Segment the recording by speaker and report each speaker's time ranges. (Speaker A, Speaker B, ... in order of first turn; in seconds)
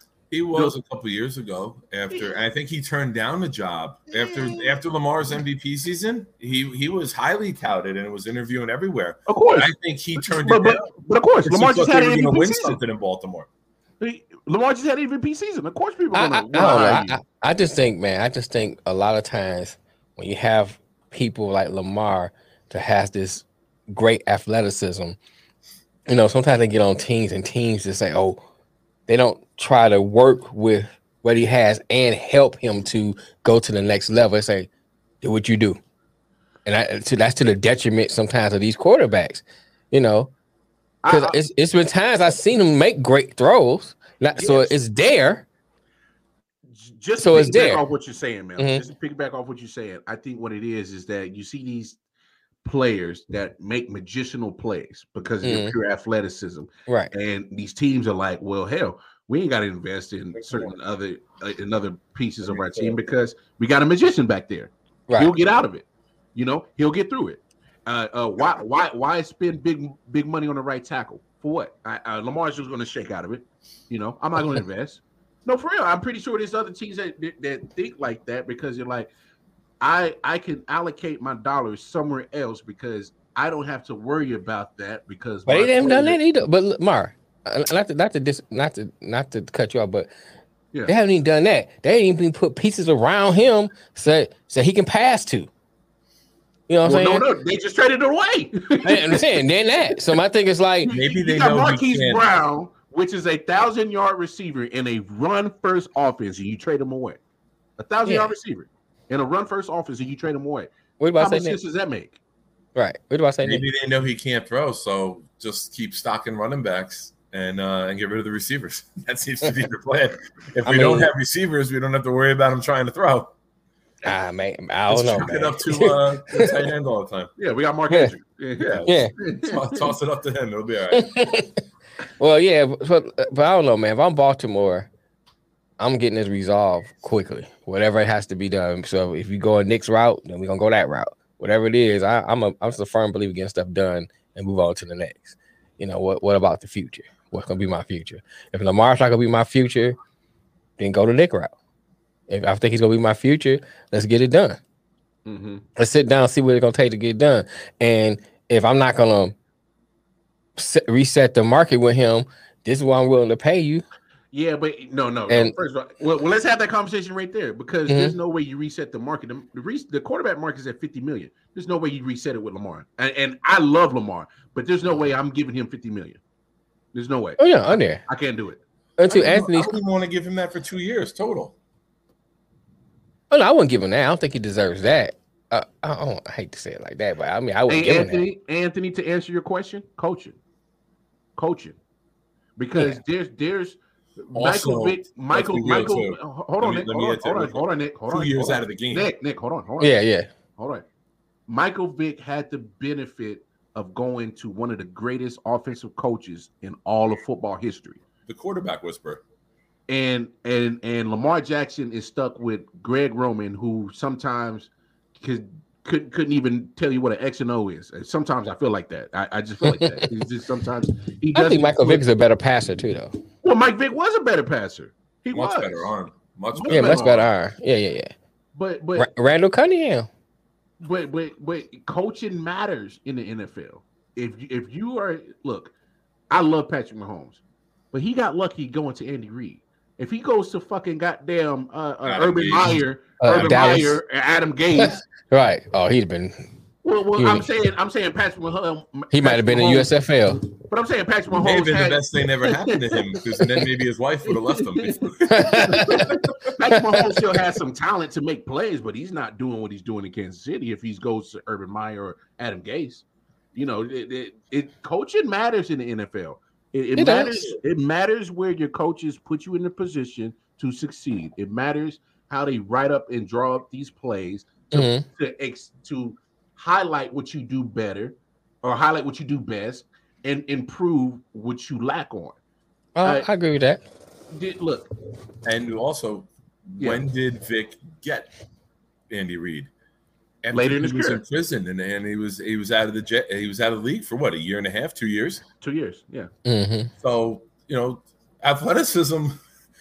Speaker A: 0.3-10.9, 11.4-13.5, 60.4-60.7, 62.5-63.0, 100.9-102.3, 113.4-123.3, 124.9-127.3, 128.6-131.4, 179.1-181.6, 194.3-199.1, 208.3-209.2, 225.3-227.3, 242.1-243.8, 251.3-256.2, 285.4-288.3, 289.1-289.7, 290.4-295.4, 297.0-299.4
Speaker B: 4.1-4.7, 9.3-12.8, 14.0-17.2, 41.0-41.4, 44.4-44.7, 46.7-52.0, 52.6-79.1, 79.8-86.2, 96.8-99.3, 100.8-107.2, 107.8-112.2, 127.4-129.8, 155.3-155.7, 164.3-176.2, 176.9-178.6, 187.7-190.4, 191.4-191.8, 192.6-199.9, 200.6-200.8, 201.5-208.0, 209.9-222.1, 223.4-225.9, 226.5-227.3, 228.6-229.1, 230.8-235.7, 236.3-237.4, 237.9-245.0, 246.8-249.9, 250.6-253.6, 254.3-263.0, 263.6-282.4, 284.3-284.9, 286.8-287.1, 290.5-291.2, 295.6-296.3
Speaker C: 16.1-25.2, 26.1-28.4, 29.1-34.7, 35.2-35.8, 36.6-40.3, 41.1-45.5, 47.2-47.8, 48.6-48.8, 55.4-55.8, 85.5-90.1, 90.9-95.5, 96.7-97.2, 98.8-100.9, 108.1-108.3, 111.0-111.6, 112.8-113.7, 120.7-121.1, 124.1-126.5, 128.8-129.1, 130.9-131.6, 132.2-134.9, 135.8-149.9, 150.8-151.5, 152.3-154.6, 155.8-159.3, 160.6-163.8, 165.3-165.6, 167.9-168.2, 177.4-178.0, 179.0-179.7, 183.3-188.2, 199.8-200.3, 219.6-220.1, 221.3-223.1, 226.7-228.1, 229.0-230.1, 243.2-244.0, 244.8-246.4, 247.2-247.5, 249.1-250.4, 255.3-256.1, 267.0-267.6, 274.7-275.1, 283.0-283.8, 296.4-296.9